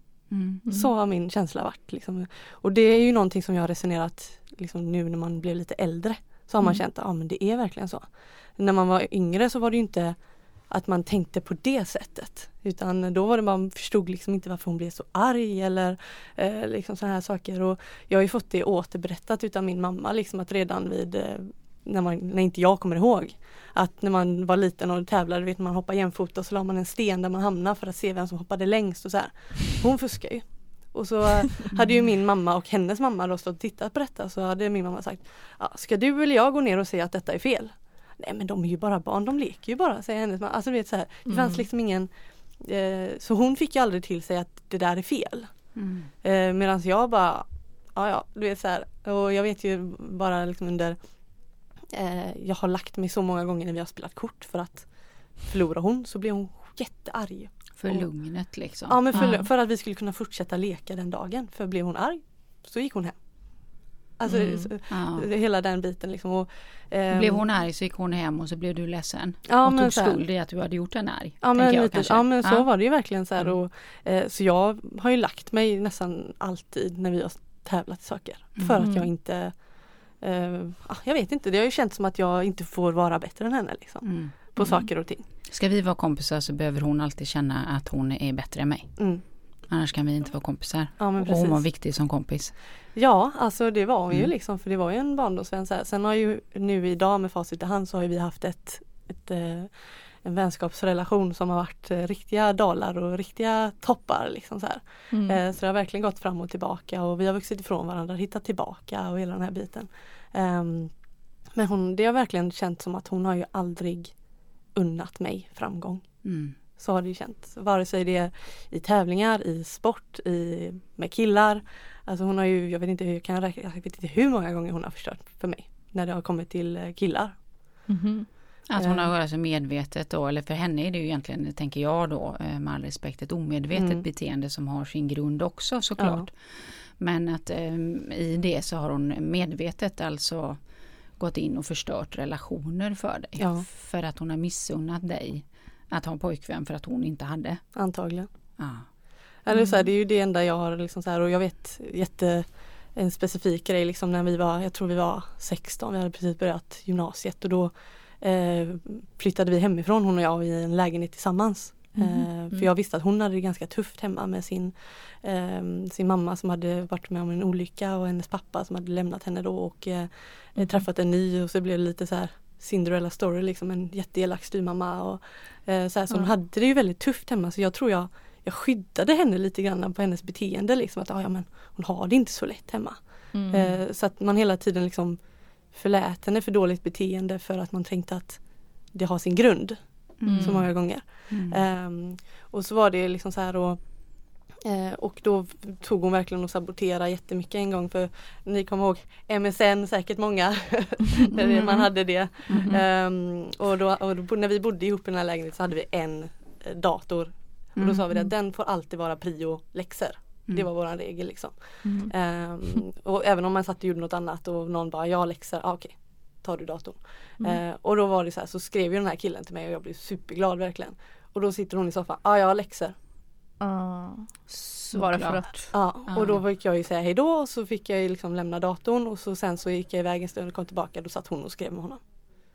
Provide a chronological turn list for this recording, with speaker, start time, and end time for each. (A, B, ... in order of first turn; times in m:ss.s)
0:00.3-0:00.6 A
0:00.6-0:00.9 B
0:00.7-0:51.0 C
0:41.3-0:41.6 B
0:45.7-0:46.1 A
0:51.9-0:58.1 C
0:57.8-0:59.4 A
0:58.8-1:07.4 C
1:04.3-1:04.7 B
1:04.9-1:05.3 A
1:07.1-1:12.7 A
1:09.5-1:10.2 C
1:11.4-1:25.2 C
1:18.8-1:19.1 B
1:24.0-1:29.0 A
1:24.6-1:24.8 B
1:29.0-1:29.2 C
1:29.6-1:32.6 A
1:31.0-1:31.6 C
1:32.9-1:50.9 C
1:45.1-1:45.4 B
1:51.5-1:54.2 C
1:54.7-2:07.4 C
1:56.2-1:56.6 A
2:07.9-2:08.3 B
2:08.7-2:20.6 A
2:08.8-2:09.1 C
2:13.7-2:14.0 C
2:16.0-2:16.3 C
2:21.2-2:27.6 A
2:23.4-2:23.6 C
2:27.7-2:28.3 C
2:28.6-2:28.9 A
2:29.4-3:43.0 C
2:29.5-2:29.9 B
2:42.0-2:42.7 B
2:50.6-2:50.8 B
3:03.3-3:03.8 B
3:10.2-3:11.6 A
3:10.2-3:10.6 B
3:21.4-3:21.9 A
3:22.5-3:22.8 A
3:27.8-3:28.1 A
3:31.8-3:32.1 B
3:43.6-3:45.7 B
3:44.9-3:46.4 A
3:45.7-3:52.0 C